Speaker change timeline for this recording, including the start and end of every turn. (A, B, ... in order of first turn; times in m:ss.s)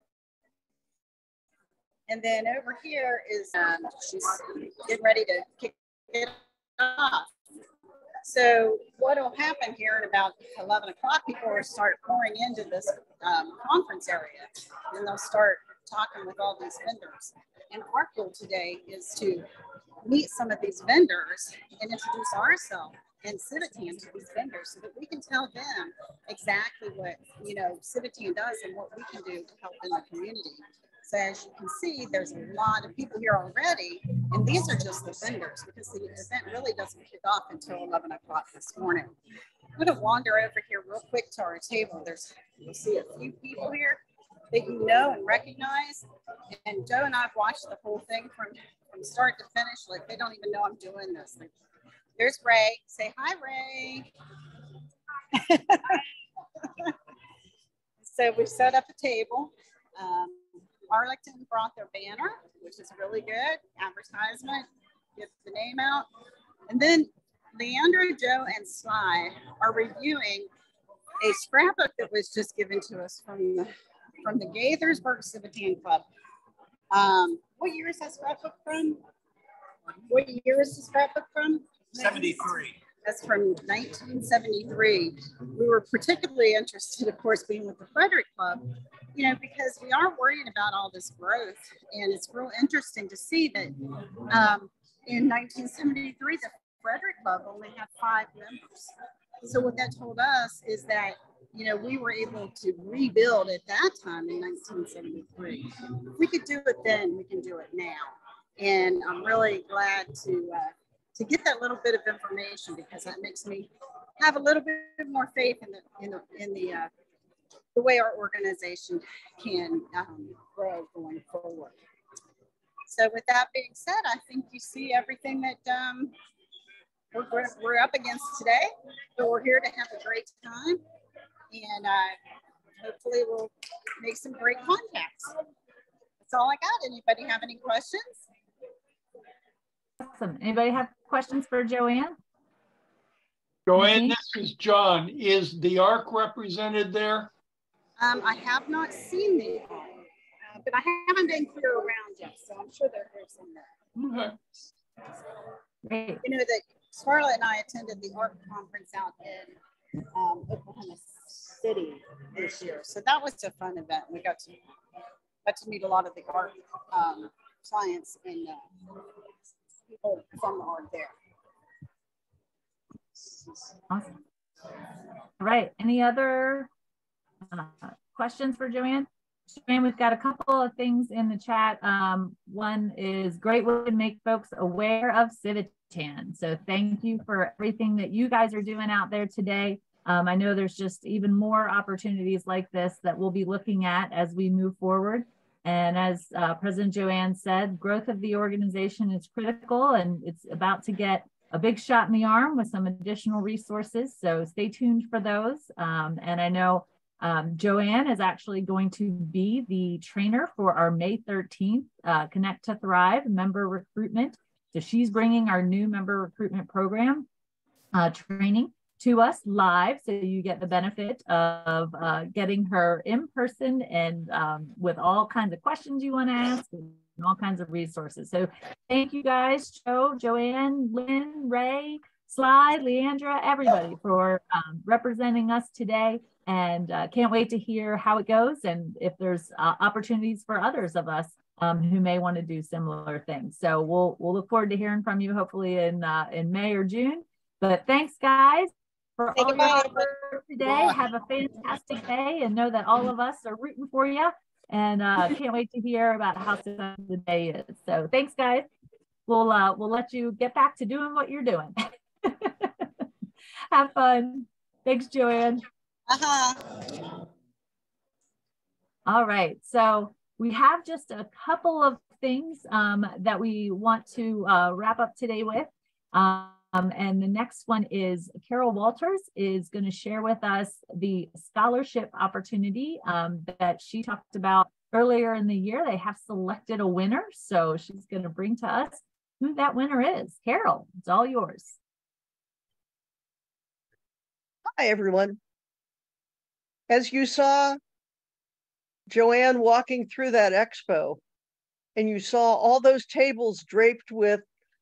0:02.1-0:07.3 A
0:08.2-0:19.4 A
0:20.0-0:39.1 A
0:39.8-0:44.0 A
0:44.5-0:51.5 A
0:52.2-0:54.1 A
0:55.3-0:56.0 A
0:58.0-1:06.1 A
1:06.7-1:10.5 A
1:11.2-1:13.7 A
1:14.2-1:16.0 A
1:16.9-1:19.0 A
1:20.1-1:38.9 A
1:39.4-1:56.9 A
1:57.7-2:01.8 A
2:02.9-2:06.1 A
2:07.1-2:10.8 A
2:11.5-2:12.2 A
2:12.8-2:15.3 A
2:16.2-2:18.2 A
2:20.0-2:22.2 B
2:23.6-2:27.3 C
2:23.8-2:24.2 B
2:28.0-2:33.7 A
2:34.0-2:34.4 C
2:35.8-2:36.2 B
2:36.2-2:39.6 A
2:40.1-2:44.6 A
2:45.4-2:48.7 A
2:49.8-2:51.1 A
2:53.1-2:53.8 A
2:55.4-2:56.7 B
2:57.5-3:37.3 B
3:37.9-4:18.6 B
4:09.4-4:10.1 A
4:19.3-4:22.9 B
4:23.7-4:25.6 B
4:26.1-4:26.7 A
4:29.0-4:51.8 B
4:54.8-4:55.4 D
4:56.9-4:57.8 D
4:59.1-5:01.2 D
5:02.0-5:04.4 D